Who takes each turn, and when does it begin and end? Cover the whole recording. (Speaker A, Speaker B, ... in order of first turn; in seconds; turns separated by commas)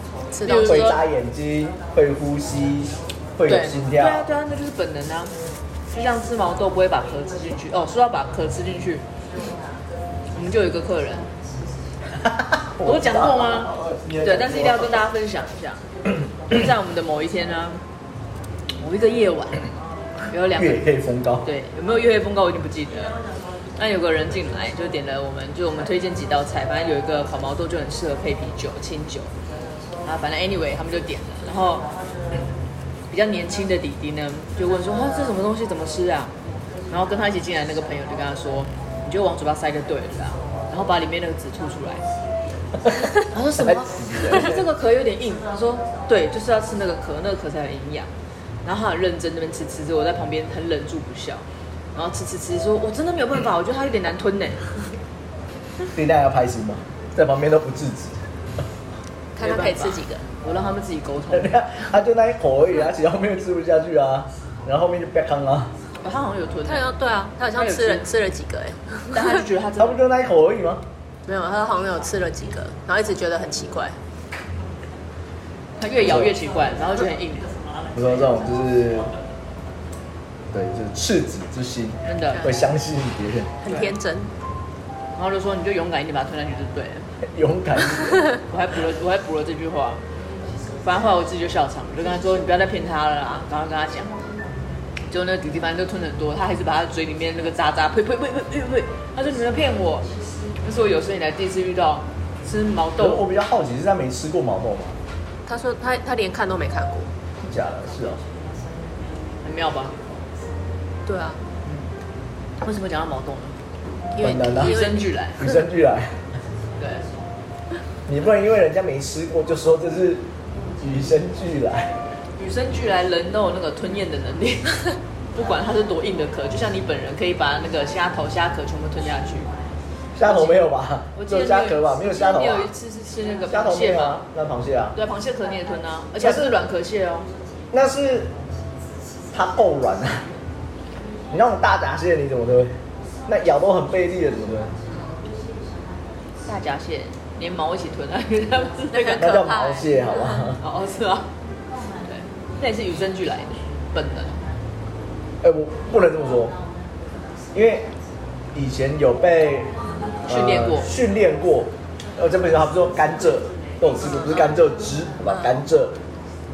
Speaker A: 0.3-1.0, Speaker B: 0.4-1.0, Speaker C: 0.5-4.3, Speaker B: 3.5-5.3, Speaker B: 5.9-9.1, Speaker B: 10.3-11.3, Speaker C: 12.2-15.0, Speaker B: 12.8-15.8, Speaker B: 16.5-17.8, Speaker B: 18.8-19.7, Speaker B: 20.3-20.9, Speaker C: 20.5-21.5, Speaker B: 21.4-23.2, Speaker B: 23.8-29.3, Speaker B: 30.1-31.9, Speaker B: 33.1-36.3, Speaker B: 36.9-42.0, Speaker B: 43.2-48.1, Speaker C: 43.6-44.7, Speaker B: 48.6-54.6, Speaker C: 55.9-58.2, Speaker A: 59.4-60.3, Speaker B: 59.4-61.7, Speaker C: 61.3-65.7, Speaker B: 66.0-66.9, Speaker A: 66.7-69.4, Speaker B: 67.5-68.1, Speaker B: 69.1-70.0, Speaker C: 69.8-70.8, Speaker A: 71.3-74.0, Speaker B: 75.8-77.5, Speaker C: 77.9-79.1, Speaker C: 80.5-83.6, Speaker B: 82.0-82.5, Speaker A: 82.3-82.6, Speaker A: 83.6-84.3, Speaker B: 83.7-83.9, Speaker B: 85.2-87.1, Speaker C: 87.3-88.3, Speaker B: 88.4-90.0, Speaker B: 90.8-94.2, Speaker B: 95.1-100.1, Speaker B: 100.6-103.2, Speaker C: 103.0-105.0, Speaker A: 105.5-107.1, Speaker C: 107.4-108.2, Speaker B: 109.4-110.0, Speaker A: 111.1-111.4, Speaker B: 111.6-111.9, Speaker B: 112.6-113.6, Speaker A: 114.1-115.1, Speaker C: 114.2-114.8, Speaker B: 114.5-115.4, Speaker C: 115.4-116.2, Speaker B: 116.8-117.1, Speaker C: 118.1-120.3, Speaker C: 120.8-121.9, Speaker B: 122.4-129.5, Speaker C: 130.2-132.7, Speaker B: 130.2-134.2, Speaker C: 133.5-135.0, Speaker B: 134.9-137.3, Speaker C: 136.2-136.5, Speaker C: 137.7-138.3, Speaker C: 139.3-140.3, Speaker C: 141.3-144.7, Speaker B: 146.4-149.4, Speaker A: 148.9-150.3, Speaker C: 149.2-150.6, Speaker B: 150.6-151.3, Speaker B: 152.1-154.4, Speaker C: 155.4-156.6, Speaker C: 157.5-157.9, Speaker C: 158.5-159.7, Speaker B: 160.2-160.9, Speaker C: 160.3-166.0